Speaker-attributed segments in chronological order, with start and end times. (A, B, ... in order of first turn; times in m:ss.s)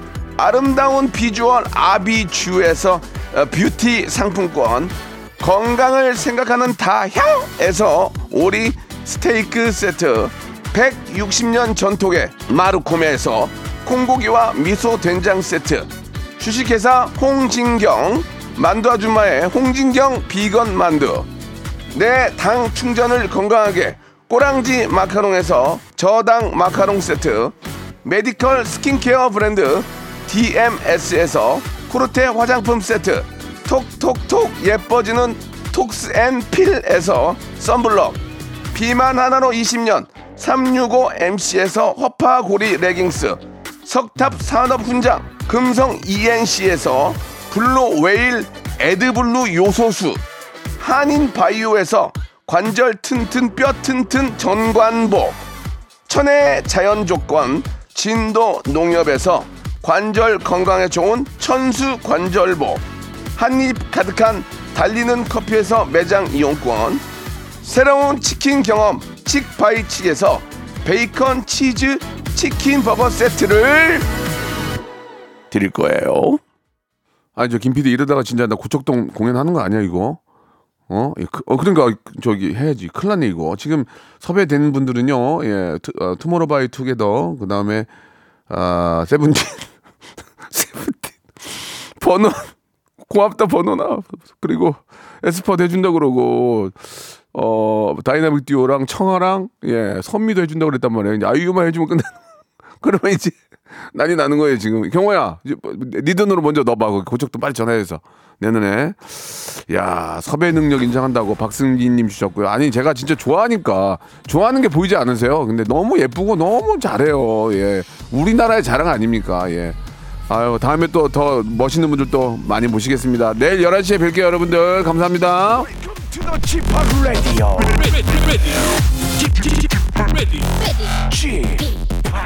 0:00.4-0:21.3 A
0:21.9-0:38.2 A
0:38.7-0:50.2 A
0:50.8-0:55.4 A
0:56.1-1:02.8 A
1:03.4-1:07.0 A
1:07.6-1:14.1 A
1:15.5-1:16.4 A
1:17.4-1:20.2 A
1:20.9-1:27.9 A
1:28.5-1:29.7 A
1:30.5-1:32.5 A
1:33.0-1:42.2 A
1:42.8-1:43.4 A
1:43.9-2:08.5 A
2:09.3-2:10.3 A
2:11.1-2:11.7 A